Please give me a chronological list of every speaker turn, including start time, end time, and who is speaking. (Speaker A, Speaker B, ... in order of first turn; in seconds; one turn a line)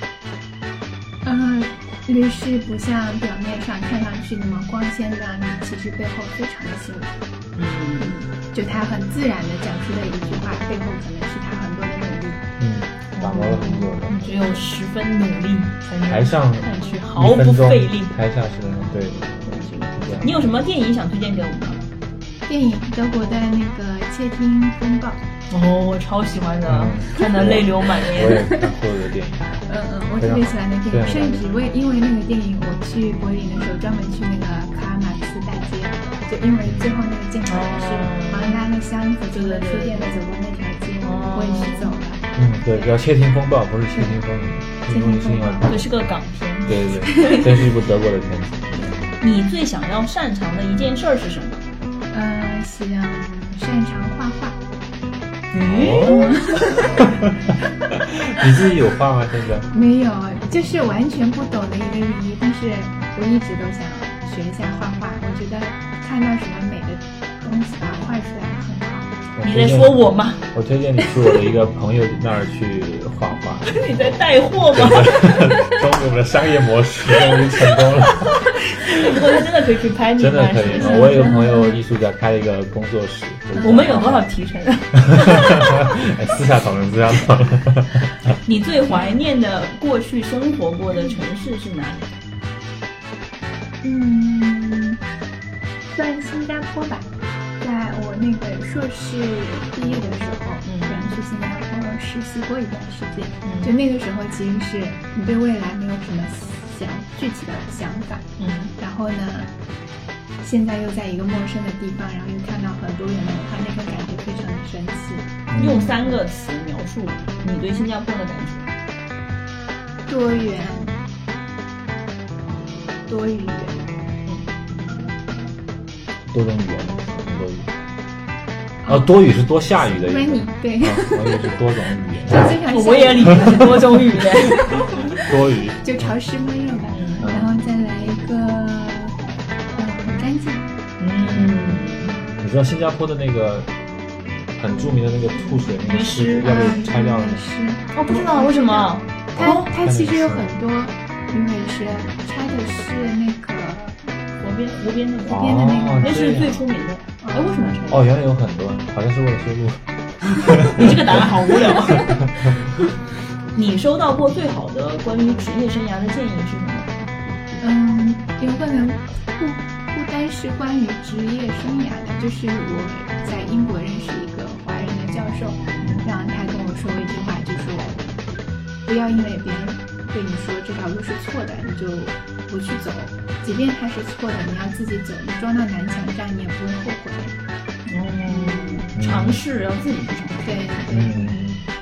Speaker A: 1.2-7.2
Speaker B: 7.5-8.1
Speaker A: 8.0-12.4
Speaker C: 12.6-14.4
Speaker B: 13.1-18.1
Speaker C: 16.0-19.4
Speaker B: 19.4-21.8
Speaker C: 19.9-20.3
Speaker A: 22.5-25.2
Speaker B: 25.5-28.4
Speaker C: 26.7-29.6
Speaker A: 27.2-27.6
Speaker A: 28.2-28.7
Speaker A: 29.7-42.9
Speaker C: 30.2-31.5
Speaker C: 36.6-37.0
Speaker B: 37.5-38.6
Speaker B: 39.3-40.2
Speaker B: 41.0-41.9
Speaker C: 42.4-45.8
Speaker A: 44.9-45.7
Speaker B: 45.6-47.5
Speaker C: 46.6-48.9
Speaker B: 49.2-51.6
Speaker A: 52.1-54.6
Speaker B: 55.5-56.8
Speaker C: 55.5-56.4
Speaker A: 56.0-57.1
Speaker C: 57.0-59.7
Speaker A: 59.7-69.1
Speaker C: 69.3-79.1
Speaker B: 69.4-70.5
Speaker B: 73.7-75.8
Speaker B: 77.2-81.5
Speaker C: 80.2-84.2
Speaker A: 80.8-81.8
Speaker A: 83.5-84.1
Speaker B: 83.6-85.8
Speaker C: 85.0-88.2
Speaker B: 88.4-92.1
Speaker A: 88.9-89.2
Speaker A: 90.9-91.2
Speaker A: 93.8-95.0
Speaker A: 95.9-97.1
Speaker A: 97.6-109.5
Speaker B: 100.6-101.2
Speaker B: 103.4-103.7
Speaker B: 108.4-108.7
Speaker A: 110.4-115.4
Speaker C: 115.5-116.0
Speaker B: 115.5-118.7
Speaker A: 120.1-120.9
Speaker A: 123.1-123.9
Speaker C: 126.3-127.7
Speaker A: 128.8-129.2
Speaker C: 128.9-132.6
Speaker A: 129.8-131.6
Speaker A: 132.2-139.2
Speaker B: 132.7-135.0
Speaker C: 134.5-136.1
Speaker B: 136.9-137.3
Speaker C: 137.2-137.5
Speaker A: 139.7-140.7
Speaker B: 141.0-142.2
Speaker C: 141.2-141.8
Speaker C: 142.4-143.7
Speaker C: 144.6-147.5
Speaker B: 145.8-146.7
Speaker A: 146.4-154.0
Speaker B: 147.9-149.7
Speaker C: 149.4-150.5
Speaker B: 154.4-158.0
Speaker C: 155.3-156.6
Speaker A: 155.3-156.2
Speaker A: 157.2-157.8
Speaker C: 157.9-162.6
Speaker B: 160.7-162.2
Speaker B: 163.5-166.9
Speaker A: 167.6-178.0
Speaker A: 178.8-187.3
Speaker B: 187.9-190.8
Speaker A: 188.2-188.9
Speaker C: 189.0-189.4
Speaker A: 190.4-191.4
Speaker C: 190.9-191.6